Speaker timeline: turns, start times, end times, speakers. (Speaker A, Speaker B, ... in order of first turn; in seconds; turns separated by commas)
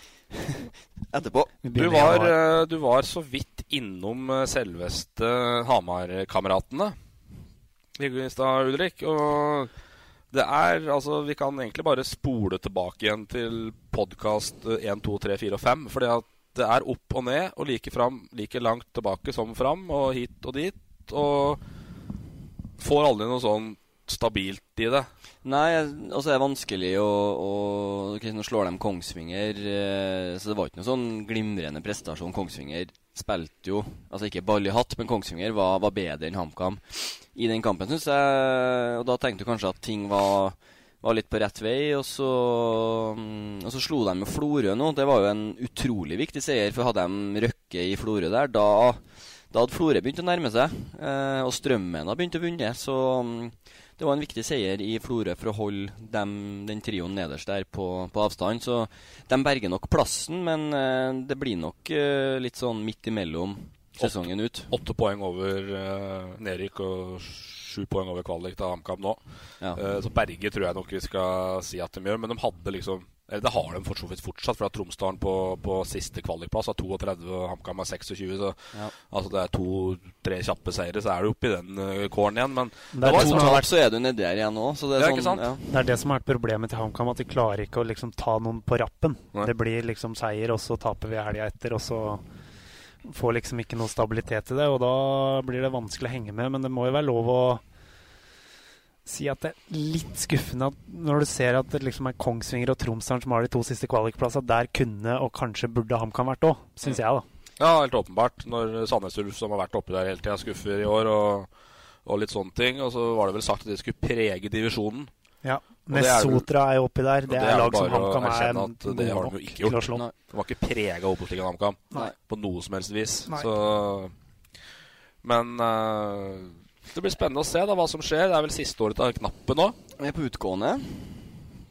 Speaker A: 0.3-1.6, Speaker B: 1.6-2.4, Speaker C: 1.8-7.0, Speaker C: 8.0-9.7, Speaker C: 10.3-21.6, Speaker C: 22.8-25.1, Speaker A: 25.4-64.7, Speaker C: 64.0-69.2, Speaker C: 69.8-83.6, Speaker B: 82.9-83.7, Speaker A: 83.0-85.7, Speaker C: 85.0-85.4, Speaker B: 85.7-92.2, Speaker B: 93.0-97.6, Speaker B: 99.1-107.2, Speaker C: 107.6-111.5, Speaker C: 112.1-115.1, Speaker B: 115.4-120.0, Speaker C: 115.9-116.5, Speaker C: 117.3-124.1, Speaker C: 125.2-129.8, Speaker A: 130.0-131.3